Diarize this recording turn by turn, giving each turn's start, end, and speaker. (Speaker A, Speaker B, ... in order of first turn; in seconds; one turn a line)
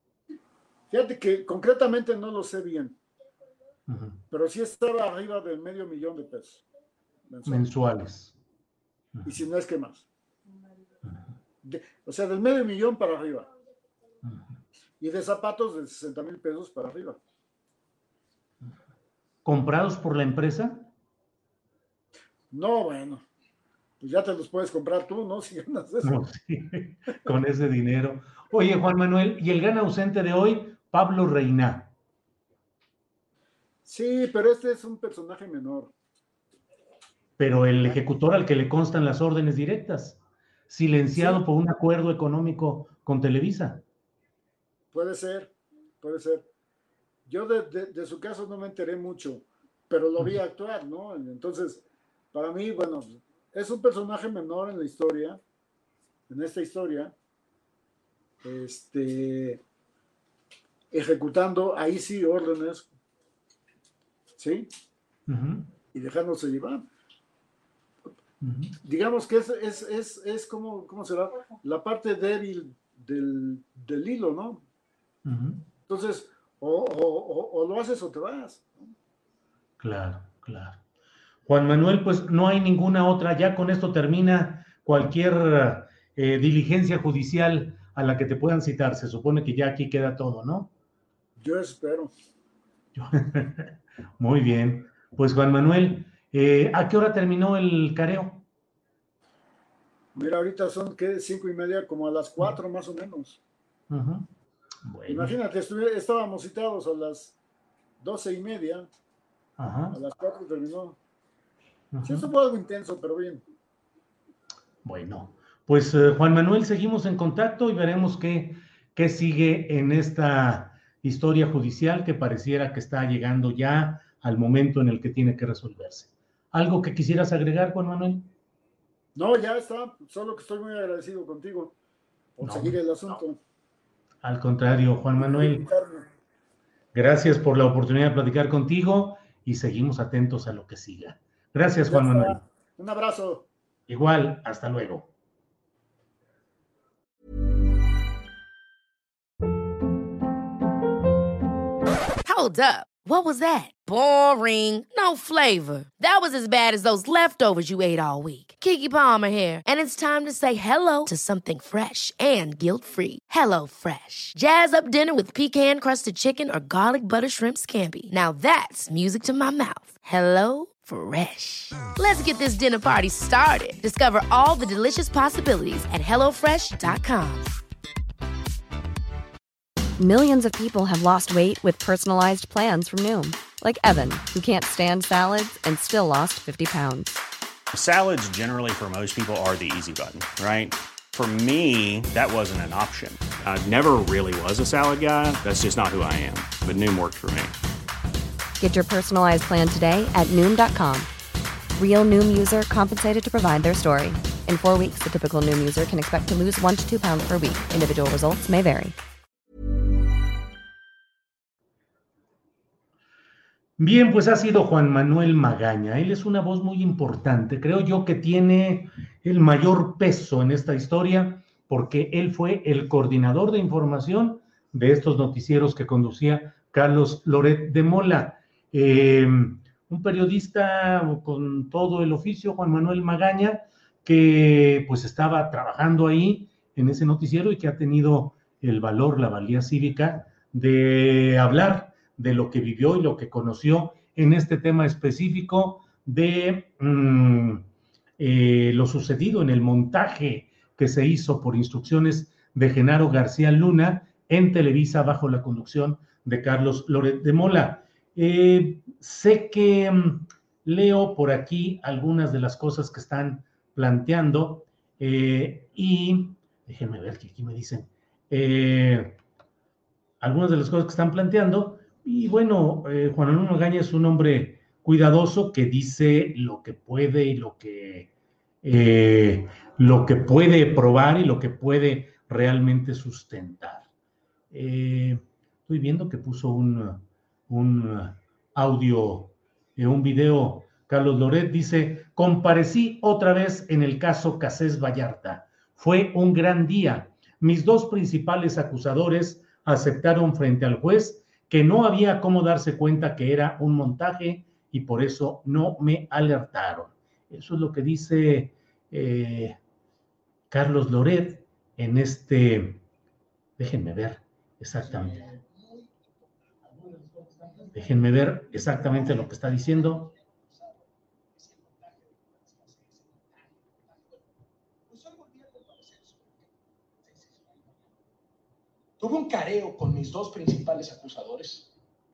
Speaker A: 0.9-3.0
Speaker B: 3.9-4.2
Speaker A: 4.3-6.6
Speaker A: 7.3-7.7
Speaker B: 7.5-8.4
Speaker A: 9.2-10.1
Speaker A: 11.6-13.5
Speaker B: 14.2-14.5
Speaker A: 15.0-17.2
Speaker B: 19.4-20.9
Speaker A: 22.5-23.2
Speaker A: 24.0-26.2
Speaker B: 26.0-31.9
Speaker A: 33.9-35.9
Speaker B: 37.4-43.8
Speaker A: 41.1-41.4
Speaker A: 44.9-46.5
Speaker A: 47.3-55.4
Speaker A: 56.3-57.1
Speaker A: 58.4-59.6
Speaker A: 60.9-62.9
Speaker A: 64.4-64.7
Speaker B: 65.3-65.7
Speaker A: 65.9-66.9
Speaker B: 68.4-68.7
Speaker A: 68.8-74.6
Speaker B: 75.2-75.7
Speaker A: 75.9-78.9
Speaker B: 79.8-80.8
Speaker B: 81.5-90.7
Speaker A: 91.4-92.1
Speaker B: 93.0-98.5
Speaker A: 100.2-103.4
Speaker B: 103.9-104.3
Speaker B: 104.8-105.4
Speaker A: 105.1-107.4
Speaker A: 108.0-108.9
Speaker B: 109.6-110.0
Speaker A: 109.9-111.0
Speaker B: 111.9-112.3
Speaker A: 112.0-113.4
Speaker B: 114.8-128.3
Speaker A: 129.2-131.8
Speaker A: 132.4-133.4
Speaker B: 132.4-132.8
Speaker B: 134.2-135.7
Speaker A: 135.2-136.1
Speaker B: 136.9-142.4
Speaker A: 141.8-143.5
Speaker B: 143.9-145.1
Speaker C: 152.2-177.6
Speaker D: 180.0-187.2
Speaker E: 187.7-197.5
Speaker D: 198.6-201.1
Speaker D: 201.8-209.0
Speaker B: 213.8-247.7
Speaker B: 248.2-269.2
Speaker B: 270.2-278.1
Speaker B: 278.6-283.9
Speaker B: 284.5-309.6
Speaker B: 310.5-312.8
Speaker B: 313.6-315.3
Speaker F: 315.3-315.9
Speaker F: 316.8-317.7
Speaker B: 317.7-320.1
Speaker F: 320.2-320.8
Speaker F: 321.4-323.5
Speaker F: 324.9-326.3
Speaker F: 327.1-327.4
Speaker F: 329.0-331.7